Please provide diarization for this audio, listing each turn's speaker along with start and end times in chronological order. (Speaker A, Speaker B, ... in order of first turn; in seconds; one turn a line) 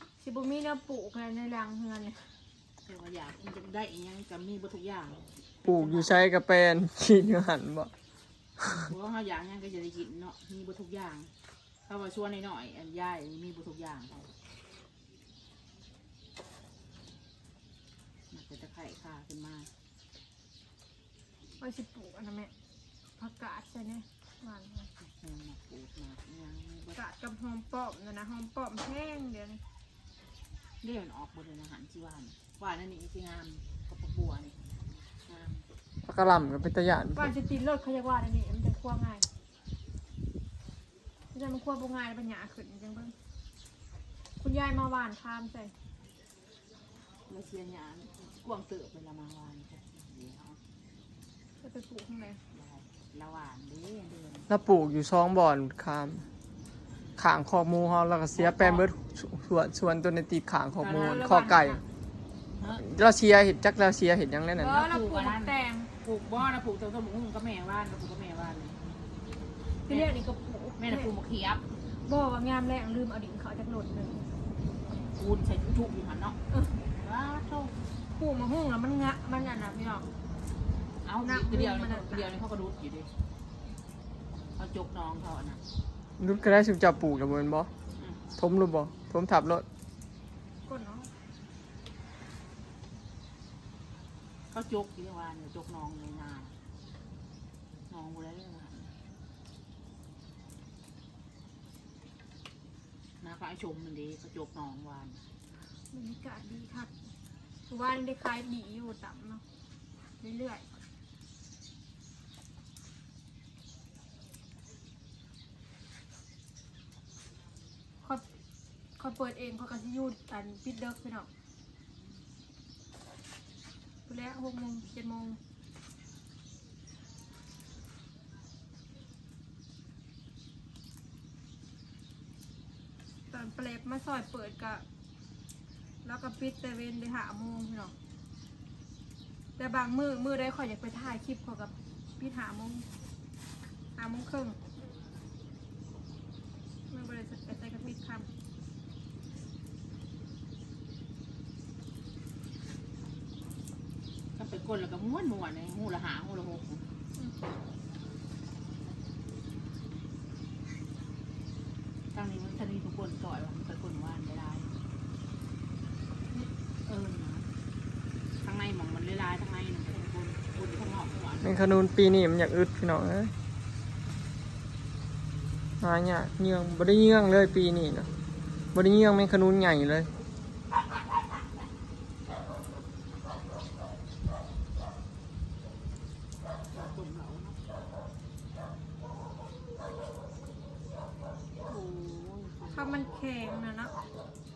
Speaker A: 0.2-2.4
Speaker B: 2.8-6.2
Speaker C: 5.7-7.9
Speaker B: 8.8-11.3
Speaker B: 11.9-14.3
Speaker B: 18.3-19.7
Speaker A: 21.6-22.5
Speaker A: 23.2-24.9
Speaker B: 25.0-27.0
Speaker A: 26.9-29.6
Speaker B: 30.8-35.7
Speaker C: 36.0-37.3
Speaker A: 37.1-39.3
Speaker A: 41.3-43.1
Speaker A: 44.4-45.7
Speaker B: 47.3-50.6
Speaker A: 51.6-52.4
Speaker B: 52.5-54.5
Speaker C: 54.5-56.3
Speaker C: 57.2-61.8
Speaker B: 58.3-58.9
Speaker B: 60.8-61.8
Speaker A: 61.1-61.5
Speaker B: 62.6-62.8
Speaker C: 62.7-64.8
Speaker A: 64.6-65.9
Speaker B: 64.7-68.8
Speaker B: 69.9-70.2
Speaker A: 69.9-71.1
Speaker B: 70.8-71.7
Speaker A: 71.9-74.3
Speaker B: 75.1-76.4
Speaker A: 76.5-76.8
Speaker B: 76.9-77.8
Speaker A: 78.1-80.1
Speaker B: 81.0-83.1
Speaker A: 81.2-82.4
Speaker B: 84.6-85.6
Speaker C: 86.2-87.7
Speaker B: 88.0-88.2
Speaker C: 88.4-89.7
Speaker A: 90.7-91.1
Speaker B: 94.5-96.5
Speaker B: 97.9-98.9
Speaker B: 103.2-105.2
Speaker A: 105.9-106.9
Speaker A: 107.7-109.4
Speaker A: 110.2-110.7
Speaker A: 119.0-121.3
Speaker A: 124.1-125.4
Speaker A: 133.3-134.8
Speaker A: 136.0-137.9
Speaker A: 139.6-142.9
Speaker A: 144.0-144.6
Speaker A: 146.9-148.3
Speaker B: 154.4-156.9
Speaker B: 162.1-164.7
Speaker B: 166.8-167.5
Speaker B: 168.4-171.7
Speaker C: 171.4-173.3
Speaker C: 175.8-178.1
Speaker C: 178.7-180.1
Speaker B: 186.7-187.6
Speaker B: 191.7-193.3
Speaker A: 192.7-194.0